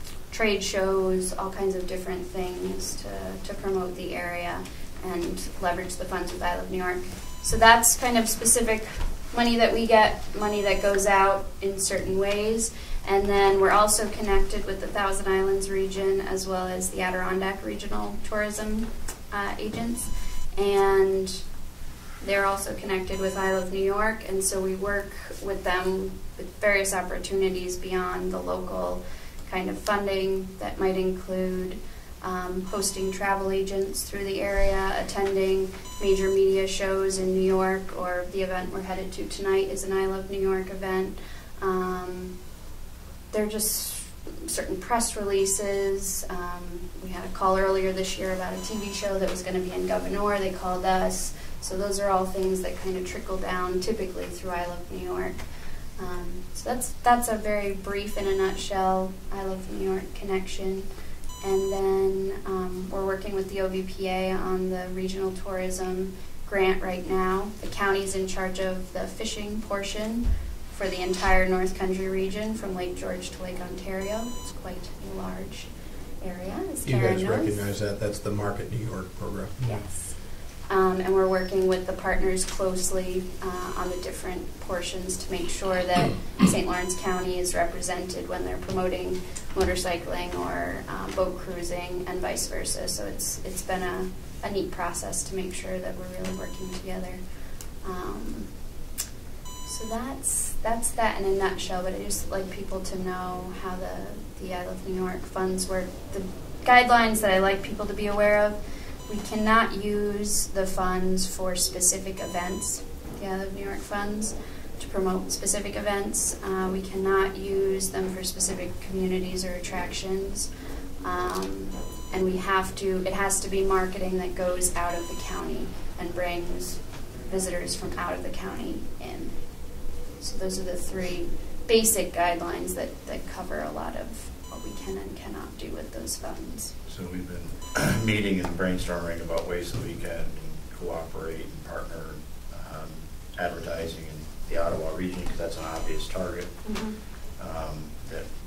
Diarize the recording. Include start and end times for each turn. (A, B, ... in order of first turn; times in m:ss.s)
0:00.3-0:21.4 A
0:22.2-0:42.3 A
0:43.3-0:55.4 A
0:56.0-1:00.9 A
1:01.4-1:15.7 A
1:16.2-1:17.6 A
1:16.8-1:19.9 B
1:20.7-1:37.2 A
1:37.8-1:38.5 A
1:39.7-1:48.6 A
1:49.1-2:00.5 A
2:01.0-2:09.4 A
2:10.2-2:16.8 A
2:16.9-2:26.5 C
2:26.6-2:27.0 A
2:27.4-2:28.3 C